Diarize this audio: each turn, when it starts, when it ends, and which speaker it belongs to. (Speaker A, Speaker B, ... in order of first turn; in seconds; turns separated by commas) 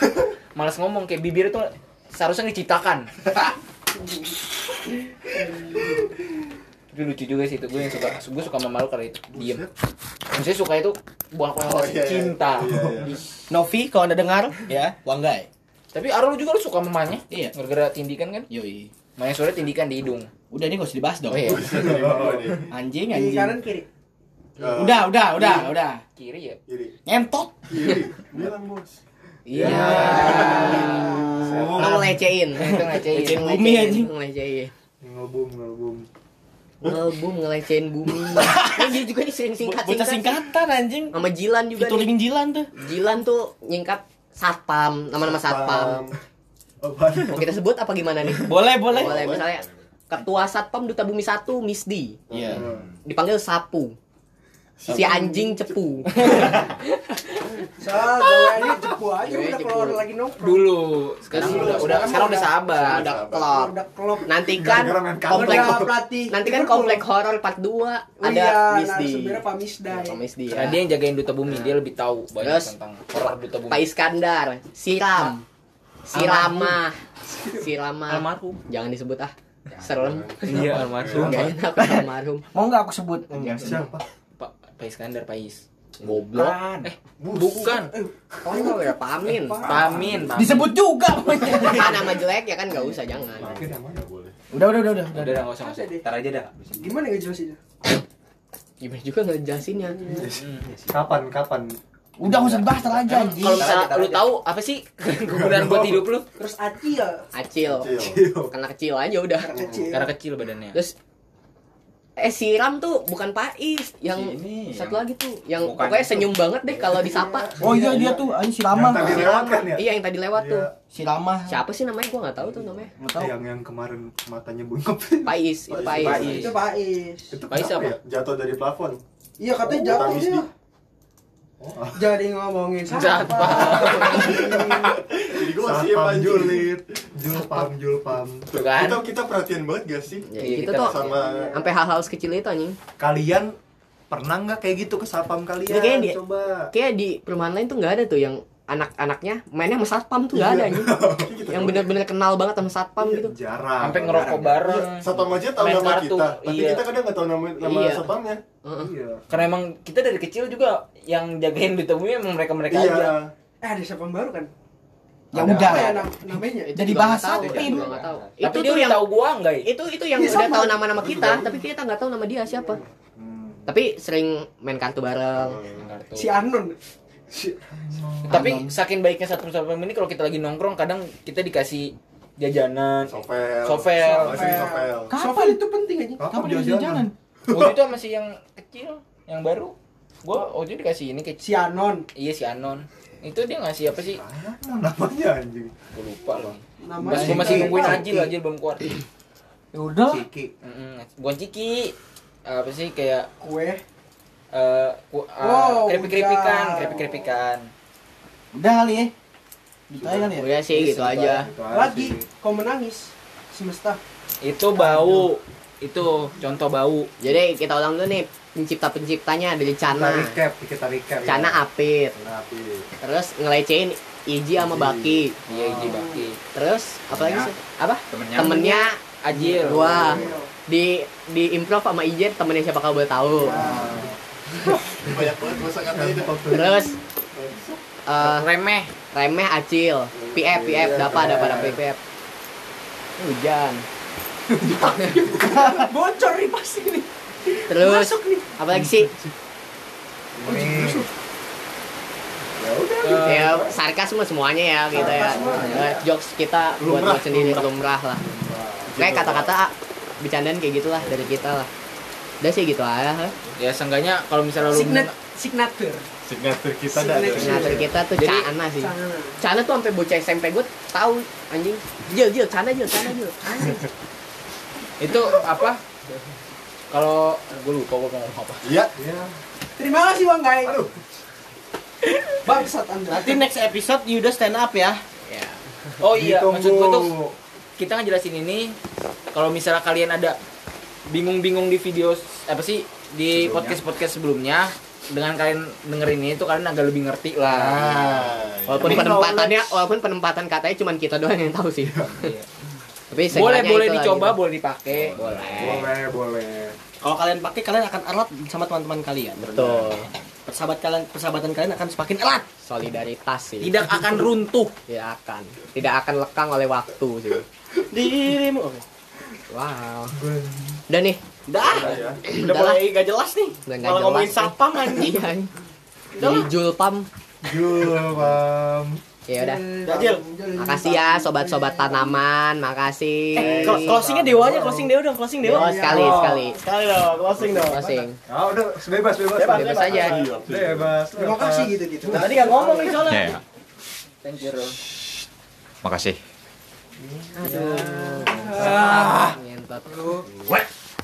Speaker A: 0.6-3.1, Speaker A: 6.9-9.7, Speaker B: 9.3-9.7, Speaker A: 10.3-12.9, Speaker B: 11.6-13.2, Speaker C: 13.5-15.5, Speaker A: 15.9-18.5, Speaker C: 18.5-18.9, Speaker A: 19.2-20.3, Speaker C: 20.5-21.9, Speaker A: 21.3-21.8, Speaker B: 21.4-22.7, Speaker D: 21.8-22.6, Speaker C: 22.7-23.6, Speaker E: 23.1-23.9, Speaker B: 24.6-25.7, Speaker C: 24.7-26.0, Speaker A: 26.2-26.6, Speaker B: 26.7-26.9, Speaker C: 27.1-28.0, Speaker B: 27.7-29.0, Speaker F: 29.5-31.1, Speaker C: 29.6-34.1, Speaker D: 29.6-30.5, Speaker A: 29.7-31.1, Speaker E: 30.6-31.4, Speaker D: 31.4-32.3, Speaker F: 31.7-34.7, Speaker A: 32.6-33.5, Speaker D: 35.0-36.1, Speaker F: 36.8-40.4, Speaker C: 38.4-38.9, Speaker C: 39.6-41.1, Speaker F: 41.1-42.1, Speaker C: 41.8-42.7, Speaker F: 42.8-46.0, Speaker B: 45.2-46.2, Speaker D: 46.8-47.5, Speaker F: 47.2-52.2, Speaker C: 48.3-49.3, Speaker B: 48.8-49.6, Speaker B: 52.3-52.8, Speaker C: 52.3-52.6, Speaker D: 52.5-52.8, Speaker F: 53.0-54.0, Speaker B: 54.8-56.3, Speaker F: 54.9-57.4, Speaker C: 56.2-56.6, Speaker E: 57.8-62.6, Speaker F: 59.2-60.0, Speaker A: 60.4-63.1, Speaker F: 61.4-61.8, Speaker B: 61.4-63.6, Speaker F: 62.8-63.7, Speaker E: 63.5-64.3, Speaker F: 64.2-70.8, Speaker D: 64.5-66.0, Speaker E: 65.3-67.1, Speaker E: 68.2-70.2, Speaker A: 70.5-73.9, Speaker F: 71.5-71.8, Speaker F: 72.4-72.7, Speaker F: 73.7-75.4, Speaker F: 76.1-77.0, Speaker C: 76.1-76.8, Speaker F: 77.5-82.5, Speaker A: 78.1-78.6, Speaker B: 79.8-81.5, Speaker A: 80.4-81.6, Speaker C: 81.7-83.8, Speaker D: 83.5-84.0, Speaker A: 84.4-88.0, Speaker C: 86.1-86.7, Speaker B: 87.2-87.8, Speaker E: 87.6-90.2, Speaker F: 88.5-89.7, Speaker A: 89.6-90.7, Speaker B: 89.7-90.3, Speaker C: 90.3-92.2, Speaker F: 91.6-93.5, Speaker B: 93.3-94.4, Speaker D: 93.3-94.1, Speaker C: 94.5-95.5, Speaker A: 95.1-96.9, Speaker E: 95.5-96.1, Speaker E: 96.8-97.6, Speaker F: 98.8-100.0, Speaker E: 99.9-100.3, Speaker A: 100.3-100.7, Speaker D: 100.9-103.0, Speaker C: 102.2-103.9, Speaker A: 103.1-106.3, Speaker D: 103.6-103.9, Speaker D: 105.2-106.1, Speaker E: 106.4-107.3, Speaker F: 107.3-109.5, Speaker B: 107.7-108.2, Speaker D: 108.0-108.5, Speaker E: 109.4-110.1, Speaker B: 109.5-109.9, Speaker A: 109.9-110.8, Speaker F: 112.2-117.5, Speaker A: 114.1-115.0, Speaker A: 115.6-116.4, Speaker E: 117.1-118.3, Speaker C: 117.6-119.3, Speaker D: 118.7-120.8, Speaker F: 119.0-120.7, Speaker C: 120.9-121.6, Speaker F: 121.5-122.9, Speaker C: 123.0-123.3, Speaker D: 123.1-125.4, Speaker F: 125.2-126.3, Speaker B: 125.7-126.5, Speaker A: 125.9-126.6, Speaker E: 126.0-127.4, Speaker D: 127.3-128.0, Speaker A: 127.5-128.0, Speaker B: 128.0-129.0, Speaker E: 129.4-130.5, Speaker B: 129.6-130.5, Speaker D: 131.6-132.0, Speaker E: 131.9-134.9, Speaker A: 132.9-134.5, Speaker D: 134.1-138.5, Speaker B: 134.4-136.7, Speaker B: 138.5-141.7, Speaker A: 138.5-139.1, Speaker F: 140.3-142.8, Speaker A: 140.4-141.2, Speaker E: 141.2-141.6, Speaker D: 143.0-143.5, Speaker D: 144.1-146.7, Speaker F: 145.7-146.2, Speaker F: 146.7-153.3, Speaker D: 150.3-151.3, Speaker B: 151.1-152.0, Speaker D: 153.0-155.3, Speaker A: 153.8-156.8, Speaker B: 154.1-158.4, Speaker F: 157.6-158.1, Speaker F: 158.6-158.9, Speaker D: 158.8-159.4, Speaker A: 159.3-163.2, Speaker B: 162.7-163.3, Speaker E: 163.6-164.5, Speaker C: 165.3-166.1, Speaker E: 165.3-166.9, Speaker D: 165.3-166.0, Speaker F: 166.6-169.1, Speaker C: 166.7-167.9, Speaker A: 167.4-169.7, Speaker F: 169.6-172.8, Speaker E: 170.2-170.8, Speaker B: 170.9-171.6, Speaker D: 173.2-173.7, Speaker F: 173.7-175.6, Speaker B: 175.4-175.9, Speaker A: 175.8-176.3, Speaker E: 176.2-176.8, Speaker D: 177.3-178.6, Speaker A: 178.3-184.6, Speaker C: 178.3-178.7, Speaker B: 183.1-185.2, Speaker E: 184.1-186.3, Speaker C: 185.1-185.6, Speaker D: 186.2-187.8, Speaker C: 186.3-187.1, Speaker A: 187.5-189.7, Speaker A: 190.2-191.4, Speaker E: 191.4-192.1, Speaker A: 192.2-194.2, Speaker D: 194.1-195.7, Speaker A: 195.9-198.9, Speaker D: 196.3-196.6, Speaker E: 196.8-198.3, Speaker C: 197.2-197.9, Speaker C: 199.7-200.2, Speaker D: 200.1-200.5, Speaker A: 200.6-201.9, Speaker A: 202.5-203.3, Speaker E: 203.4-203.8, Speaker A: 204.5-207.7, Speaker E: 205.4-207.1, Speaker C: 208.5-209.1, Speaker C: 209.9-211.4, Speaker D: 210.0-212.3, Speaker F: 210.3-211.5, Speaker E: 211.7-214.0, Speaker A: 214.4-217.1, Speaker D: 214.8-215.2, Speaker F: 217.2-220.3, Speaker D: 219.9-221.6, Speaker F: 221.3-222.2, Speaker B: 222.2-222.9, Speaker F: 223.0-225.4, Speaker B: 224.6-225.6, Speaker A: 225.5-226.4, Speaker E: 225.8-226.2, Speaker F: 226.5-229.0, Speaker G: 227.1-227.5, Speaker G: 228.1-228.9, Speaker A: 229.2-230.0, Speaker B: 229.5-230.4, Speaker F: 229.5-233.8, Speaker E: 230.0-230.5, Speaker B: 233.4-234.1, Speaker D: 233.4-234.2, Speaker B: 235.0-236.5, Speaker D: 235.9-236.9, Speaker F: 236.5-237.0, Speaker B: 237.3-237.8, Speaker F: 238.1-238.5, Speaker A: 238.2-238.9, Speaker F: 239.1-242.0, Speaker B: 240.1-241.8, Speaker D: 241.1-241.8, Speaker F: 243.2-243.9, Speaker D: 244.6-245.9, Speaker E: 245.0-248.5, Speaker F: 247.7-249.1, Speaker D: 248.7-249.3, Speaker D: 250.4-251.1, Speaker E: 250.4-251.1, Speaker D: 252.6-253.8, Speaker A: 253.0-253.6, Speaker F: 253.1-258.2, Speaker E: 254.9-256.0, Speaker B: 255.0-255.7, Speaker B: 256.8-257.7, Speaker D: 258.2-259.0, Speaker B: 258.9-259.5, Speaker F: 259.0-261.7, Speaker B: 261.0-261.4, Speaker F: 262.4-263.4, Speaker A: 263.6-265.1, Speaker E: 264.7-266.1, Speaker B: 266.2-267.9, Speaker E: 266.9-267.9, Speaker F: 267.3-273.8, Speaker A: 268.2-268.5, Speaker E: 268.8-269.4, Speaker A: 275.0-275.8, Speaker A: 276.9-278.7, Speaker B: 278.6-278.9, Speaker D: 279.0-279.3, Speaker E: 279.8-280.8, Speaker D: 280.6-281.0, Speaker E: 282.4-283.4, Speaker C: 283.1-285.0, Speaker F: 285.2-285.6, Speaker A: 286.0-287.1, Speaker D: 286.2-287.4, Speaker A: 287.8-288.8, Speaker A: 289.3-290.4, Speaker A: 291.1-297.9, Speaker D: 293.3-293.8, Speaker B: 297.5-299.2, Speaker D: 297.8-299.6, Speaker F: 298.7-302.3, Speaker D: 301.8-302.1, Speaker A: 302.1-302.5, Speaker F: 303.1-304.4, Speaker A: 303.3-305.9, Speaker B: 304.9-305.7, Speaker D: 305.6-306.8, Speaker C: 307.0-309.6, Speaker F: 309.4-310.1, Speaker B: 309.6-309.9, Speaker C: 310.5-312.5, Speaker F: 312.6-313.9, Speaker A: 313.6-314.7, Speaker F: 314.9-317.4, Speaker C: 317.9-318.8, Speaker F: 319.5-320.2, Speaker D: 320.1-320.8, Speaker F: 320.9-321.2, Speaker C: 321.5-325.3, Speaker B: 321.7-322.2, Speaker F: 322.2-322.9, Speaker F: 323.7-325.5, Speaker F: 326.2-327.1, Speaker C: 326.2-326.4, Speaker D: 327.4-329.0, Speaker F: 329.3-329.6, Speaker E: 329.3-332.1, Speaker C: 329.9-330.2, Speaker F: 330.6-334.0, Speaker C: 333.4-338.0, Speaker B: 333.4-334.3, Speaker D: 333.7-334.9, Speaker E: 335.4-336.3, Speaker F: 335.4-336.6, Speaker F: 337.6-338.2, Speaker D: 338.3-341.8, Speaker C: 339.3-340.3, Speaker F: 339.5-340.2, Speaker B: 339.9-341.0, Speaker E: 341.1-343.1, Speaker C: 342.1-343.3, Speaker G: 343.0-343.4, Speaker A: 344.2-344.8, Speaker G: 345.8-346.2, Speaker F: 347.4-350.2, Speaker C: 347.4-349.4, Speaker D: 348.5-349.2